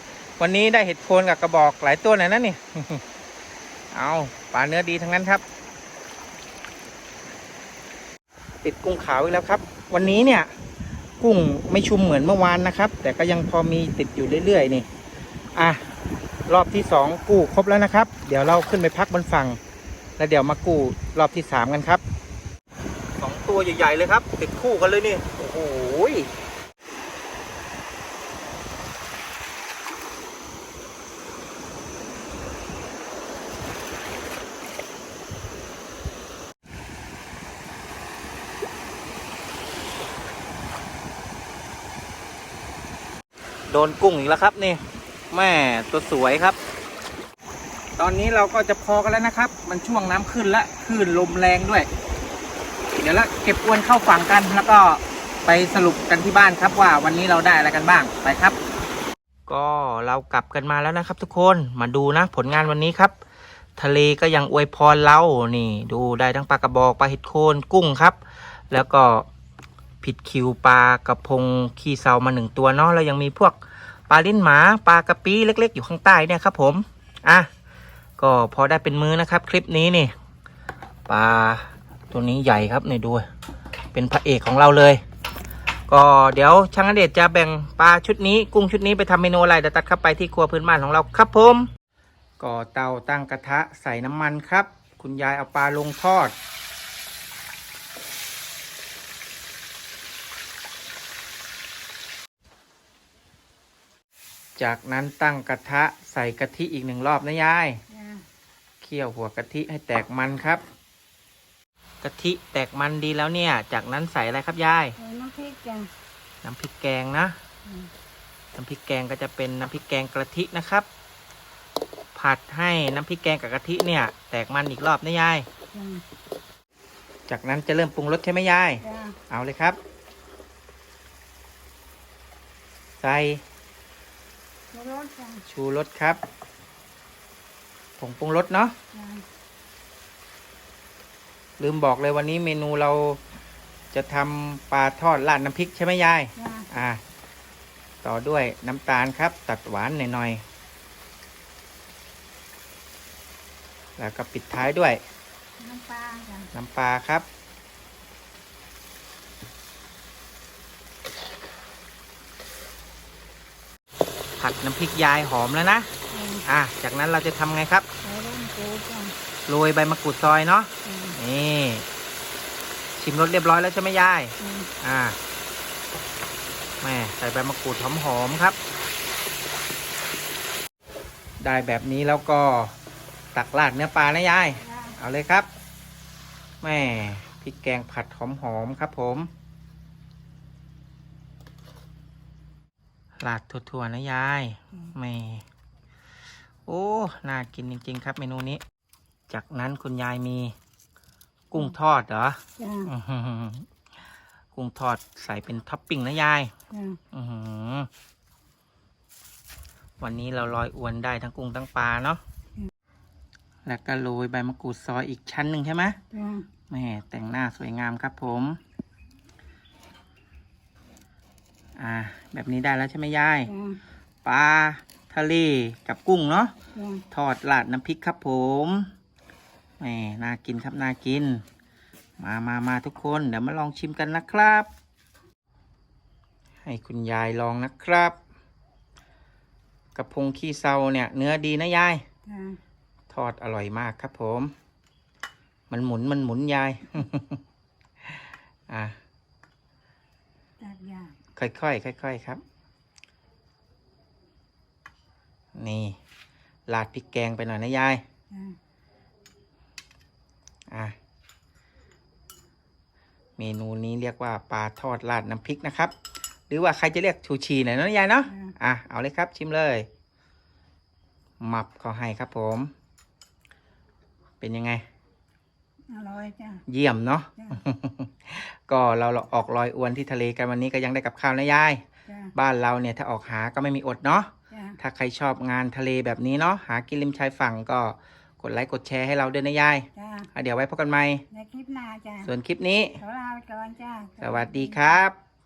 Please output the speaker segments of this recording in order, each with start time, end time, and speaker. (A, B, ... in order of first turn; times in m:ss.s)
0:00.4-0:03.0 A
0:03.9-0:05.4 A
0:08.6-0:10.5 A
0:11.2-0:14.9 A
0:15.6-0:15.8 A
0:16.5-0:19.6 A
0:20.2-0:22.0 A
0:23.2-0:26.3 A
0:43.7-0:46.6 A
0:48.0-0:51.9 A
0:53.0-0:58.6 A
0:59.5-1:03.1 A
1:03.8-1:08.2 A
1:08.7-1:09.3 A
1:10.0-1:13.6 A
1:14.1-1:17.5 A
1:18.2-1:20.1 A
1:21.1-1:23.3 A
1:23.9-1:25.0 A
1:25.9-1:31.7 A
1:32.4-1:36.3 A
1:44.6-1:47.8 A
1:47.9-1:48.2 B
1:48.8-1:50.6 A
1:52.0-1:55.0 A
1:55.0-1:55.9 B
1:56.4-1:57.4 A
1:58.6-2:00.9 A
2:02.2-2:05.5 A
2:05.7-2:06.0 B
2:07.3-2:09.8 A
2:08.8-2:09.2 B
2:13.0-2:13.4 A
2:14.7-2:15.4 B
2:15.4-2:16.2 A
2:18.0-2:18.7 A
2:18.9-2:19.2 B
2:21.6-2:23.2 A
2:23.9-2:27.0 A
2:26.4-2:26.7 B
2:28.0-2:30.4 A
2:34.0-2:35.0 A
2:35.6-2:36.5 B
2:36.5-2:37.3 A
2:44.4-2:45.9 A
2:46.1-2:46.4 B
2:46.5-2:47.9 A
2:48.0-2:49.2 B
2:49.5-2:51.8 A
2:50.8-2:51.2 B
2:53.0-2:55.2 A
2:54.4-2:54.7 B
2:56.8-2:58.6 A
3:01.4-3:02.7 A
3:03.3-3:05.5 A
3:04.6-3:05.0 B
3:06.6-3:09.3 A
3:13.2-3:15.4 A
3:16.7-3:18.6 A
3:19.3-3:20.6 A
3:21.5-3:23.7 A
3:22.6-3:22.9 B
3:24.5-3:26.5 A
3:26.7-3:27.0 B
3:27.1-3:27.9 A
3:30.0-3:32.2 A
3:33.6-3:36.0 A
3:36.1-3:36.5 B
3:36.7-3:38.6 A
3:41.8-3:43.5 A
3:43.5-3:43.8 B
3:44.2-3:46.5 A
3:46.8-3:47.0 B
3:47.1-3:48.9 A
3:49.8-3:51.4 A
3:52.2-3:54.7 A
3:56.6-3:58.2 A
4:00.0-4:02.0 A
4:02.3-4:02.6 B
4:03.1-4:04.5 A
4:05.7-4:07.4 A
4:08.7-4:09.0 A
4:10.6-4:11.2 B
4:11.4-4:12.4 A
4:15.6-4:16.0 A
4:16.7-4:18.0 A
4:18.3-4:18.6 B
4:20.7-4:21.0 A
4:23.4-4:25.9 A
4:26.5-4:29.9 A
4:28.3-4:28.5 B
4:31.4-4:32.7 A
4:34.4-4:34.8 A
4:35.9-4:36.6 B
4:36.7-4:41.8 A
4:42.3-4:51.2 A
4:44.5-4:44.8 B
4:50.0-4:50.3 B
4:51.3-4:52.3 B
4:52.2-4:53.0 A
4:53.0-4:55.0 B
4:54.2-4:55.2 A